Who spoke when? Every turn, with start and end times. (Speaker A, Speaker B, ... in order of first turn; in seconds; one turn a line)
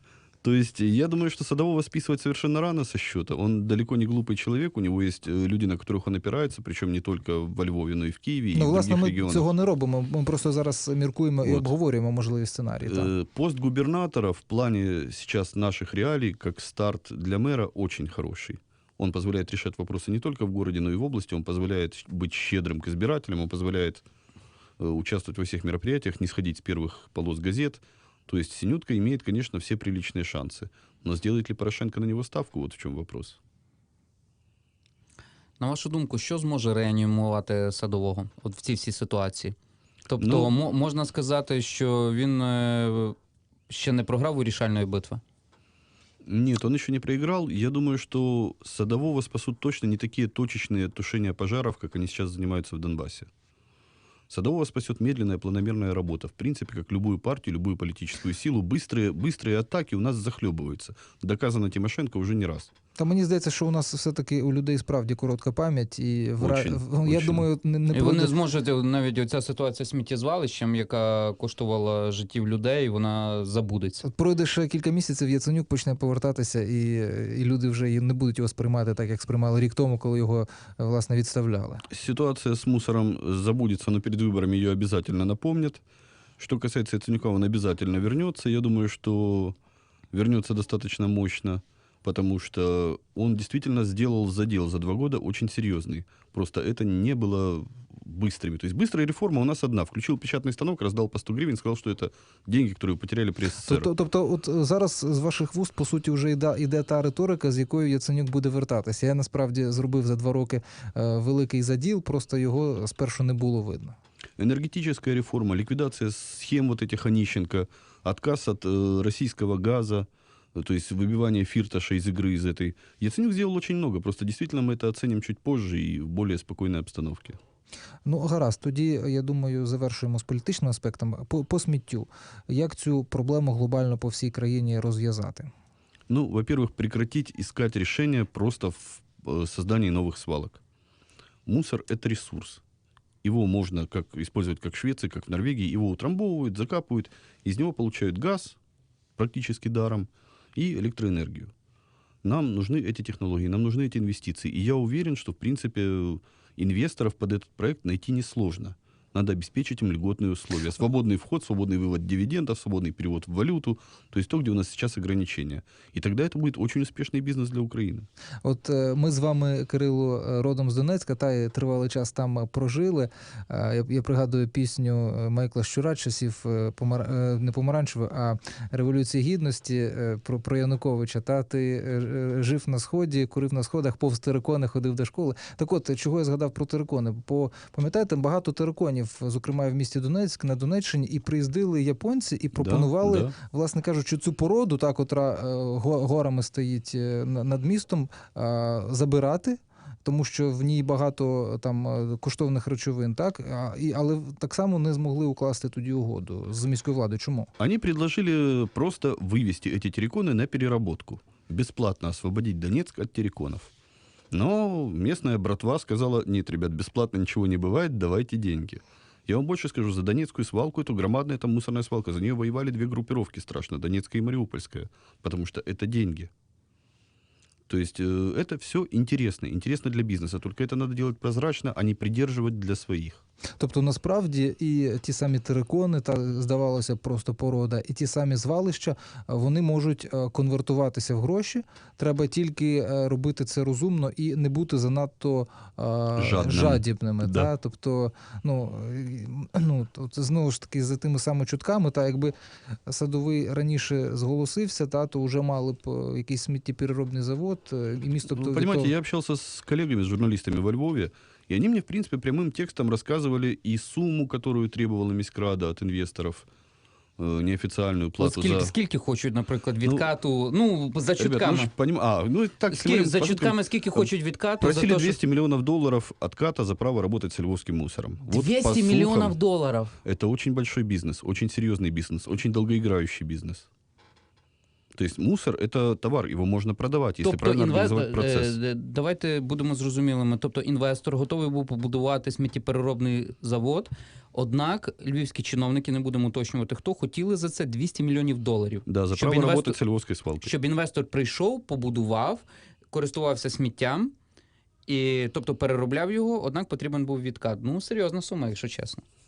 Speaker A: 0.4-9.5
Speaker B: 8.5-13.1
Speaker A: 11.4-11.7
Speaker A: 12.8-24.0
Speaker A: 24.8-33.4
Speaker C: 35.6-39.5
Speaker C: 40.1-43.1
Speaker A: 40.2-40.5
Speaker C: 43.7-45.2
Speaker A: 46.2-53.3
Speaker A: 54.3-62.7
Speaker B: 63.0-68.3
Speaker A: 66.4-67.5
Speaker C: 67.9-74.0
Speaker B: 74.0-81.8
Speaker A: 81.9-85.8
Speaker A: 86.4-89.5
Speaker A: 90.1-103.9
Speaker B: 103.6-114.0
Speaker A: 114.4-127.4
Speaker B: 128.0-135.5
Speaker A: 136.1-140.6
Speaker A: 141.4-142.6
Speaker A: 143.2-148.6
Speaker A: 149.2-151.5
Speaker A: 152.2-168.1
Speaker B: 168.4-207.5
Speaker A: 192.5-193.3
Speaker A: 207.6-213.7
Speaker A: 214.3-226.3
Speaker A: 227.7-233.2
Speaker B: 233.6-252.3
Speaker A: 246.2-247.5
Speaker B: 252.9-258.9
Speaker A: 258.3-266.5
Speaker A: 267.2-268.7
Speaker C: 268.2-271.7
Speaker A: 269.8-270.1
Speaker A: 271.2-279.3
Speaker C: 272.7-275.2
Speaker C: 278.3-280.0
Speaker A: 280.0-283.7
Speaker A: 284.9-288.6
Speaker C: 287.2-299.8
Speaker A: 298.9-300.5
Speaker C: 300.4-304.1
Speaker C: 304.9-309.0